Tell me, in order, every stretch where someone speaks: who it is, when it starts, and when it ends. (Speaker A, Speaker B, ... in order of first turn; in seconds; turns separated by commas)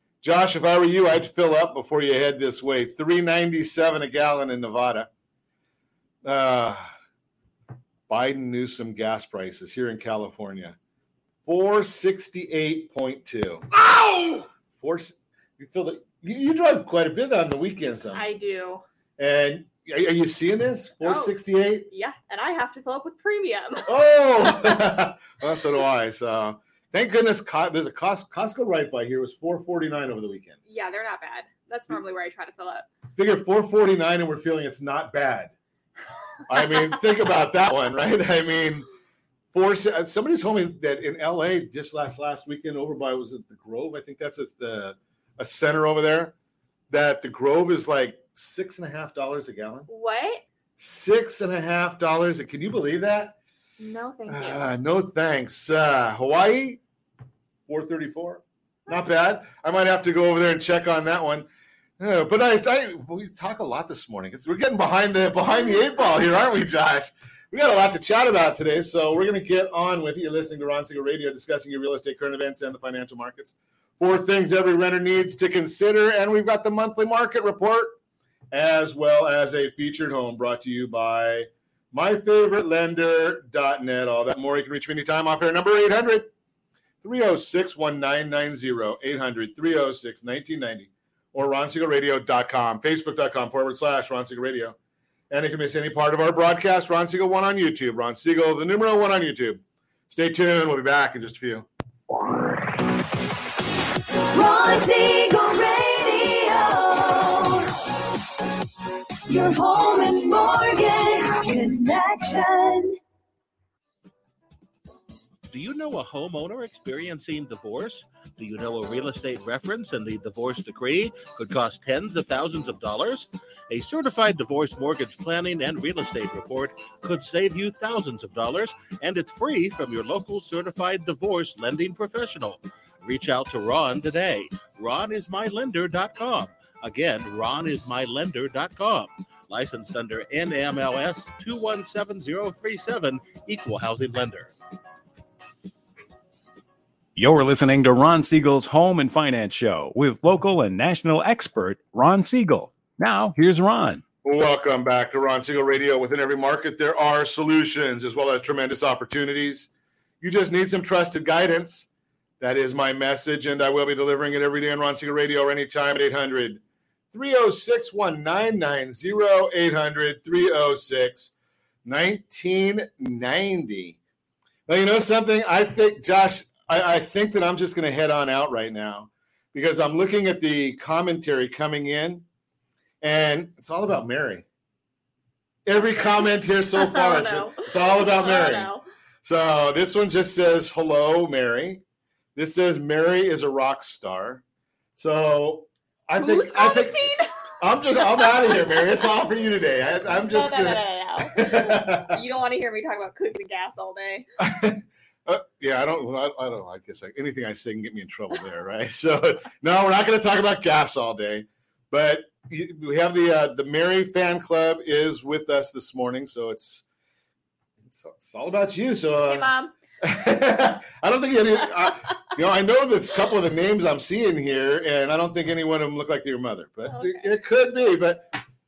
Speaker A: 0.2-5.1, Speaker A: 6.2-6.9, Speaker A: 8.1-10.8, Speaker A: 11.4-13.7, Speaker A: 14.8-18.2, Speaker B: 18.1-18.8, Speaker A: 19.2-21.9, Speaker B: 21.0-21.4, Speaker B: 21.9-23.9, Speaker A: 23.9-30.6, Speaker B: 30.7-32.9, Speaker A: 33.2-35.5, Speaker A: 36.5-38.9, Speaker A: 39.5-46.3, Speaker A: 46.9-49.9, Speaker B: 49.9-50.4, Speaker A: 50.8-53.4, Speaker B: 53.8-54.7, Speaker A: 54.3-56.8, Speaker A: 57.7-61.5, Speaker A: 62.0-78.0, Speaker A: 78.5-86.3, Speaker A: 87.0-94.8, Speaker A: 95.3-101.7, Speaker C: 104.3-107.8, Speaker C: 109.3-113.0, Speaker D: 115.5-144.5, Speaker E: 147.2-154.0, Speaker A: 154.2-159.7, Speaker A: 160.2-161.9, Speaker A: 162.4-166.6, Speaker A: 167.1-171.3, Speaker A: 171.8-174.0, Speaker A: 174.7-182.2, Speaker A: 183.0-184.4, Speaker A: 185.7-191.8, Speaker B: 186.0-188.8, Speaker A: 192.4-194.4, Speaker A: 195.0-202.2, Speaker B: 196.2-197.3, Speaker B: 198.0-199.0, Speaker B: 200.0-204.3, Speaker A: 204.4-216.8, Speaker A: 217.8-228.4, Speaker B: 219.3-219.7, Speaker B: 226.9-227.3